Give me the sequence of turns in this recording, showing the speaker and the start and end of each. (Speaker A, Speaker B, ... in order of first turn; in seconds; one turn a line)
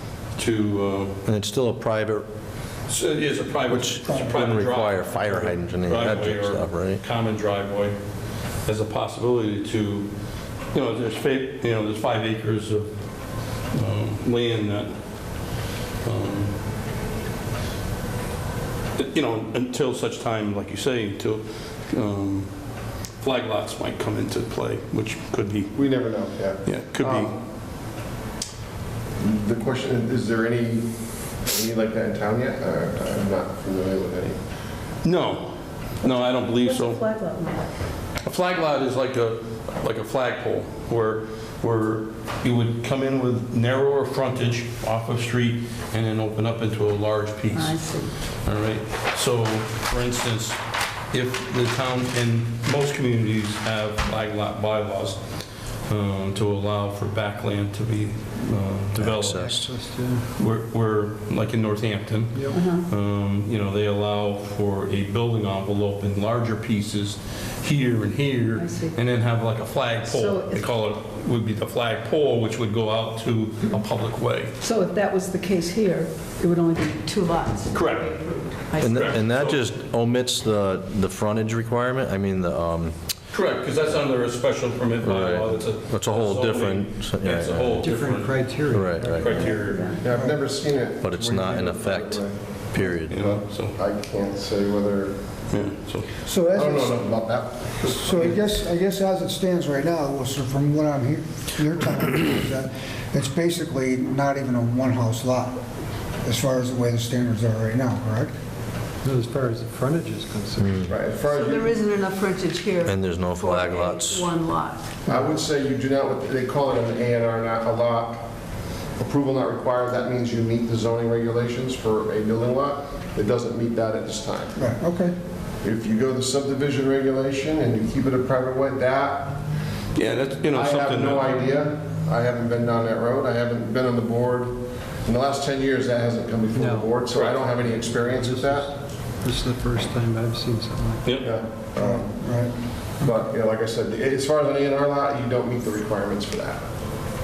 Speaker A: 0.3-1.2
Speaker B: 1.3-2.3
Speaker A: 2.9-8.0
Speaker B: 3.7-7.0
Speaker A: 8.6-10.1
Speaker A: 10.7-12.9
Speaker A: 13.6-15.5
Speaker A: 16.0-16.6
Speaker A: 19.0-22.5
Speaker A: 23.2-25.8
Speaker C: 25.8-27.3
Speaker A: 26.6-27.3
Speaker C: 29.2-30.9
Speaker C: 31.4-34.4
Speaker A: 35.0-37.0
Speaker D: 36.6-37.7
Speaker A: 38.2-47.8
Speaker D: 47.5-48.1
Speaker A: 48.4-50.6
Speaker A: 51.1-55.2
Speaker A: 55.9-59.6
Speaker B: 58.9-59.7
Speaker E: 59.4-60.3
Speaker A: 60.4-74.5
Speaker D: 62.5-62.9
Speaker D: 68.6-69.0
Speaker D: 70.0-70.7
Speaker D: 74.6-79.2
Speaker A: 77.7-78.2
Speaker A: 78.8-79.6
Speaker B: 78.8-83.1
Speaker A: 83.3-89.9
Speaker B: 85.0-87.9
Speaker E: 87.8-89.6
Speaker B: 88.7-89.4
Speaker D: 89.4-90.1
Speaker C: 90.0-95.2
Speaker F: 90.1-90.4
Speaker B: 91.0-93.2
Speaker A: 93.1-93.8
Speaker A: 95.5-96.1
Speaker F: 96.3-97.3
Speaker C: 96.5-98.4
Speaker F: 97.8-105.6
Speaker F: 106.2-108.3
Speaker E: 109.0-110.8
Speaker B: 110.6-111.0
Speaker C: 110.9-111.8
Speaker D: 111.3-115.0
Speaker B: 112.8-114.3
Speaker F: 115.1-115.3
Speaker C: 115.1-118.3
Speaker C: 119.0-124.6
Speaker F: 124.6-125.1
Speaker C: 125.6-129.4
Speaker A: 129.9-131.5
Speaker C: 130.5-138.7
Speaker E: 136.5-141.2
Speaker A: 137.1-137.4
Speaker A: 141.0-141.3
Speaker C: 141.2-142.2
Speaker F: 141.8-142.5
Speaker C: 143.0-146.7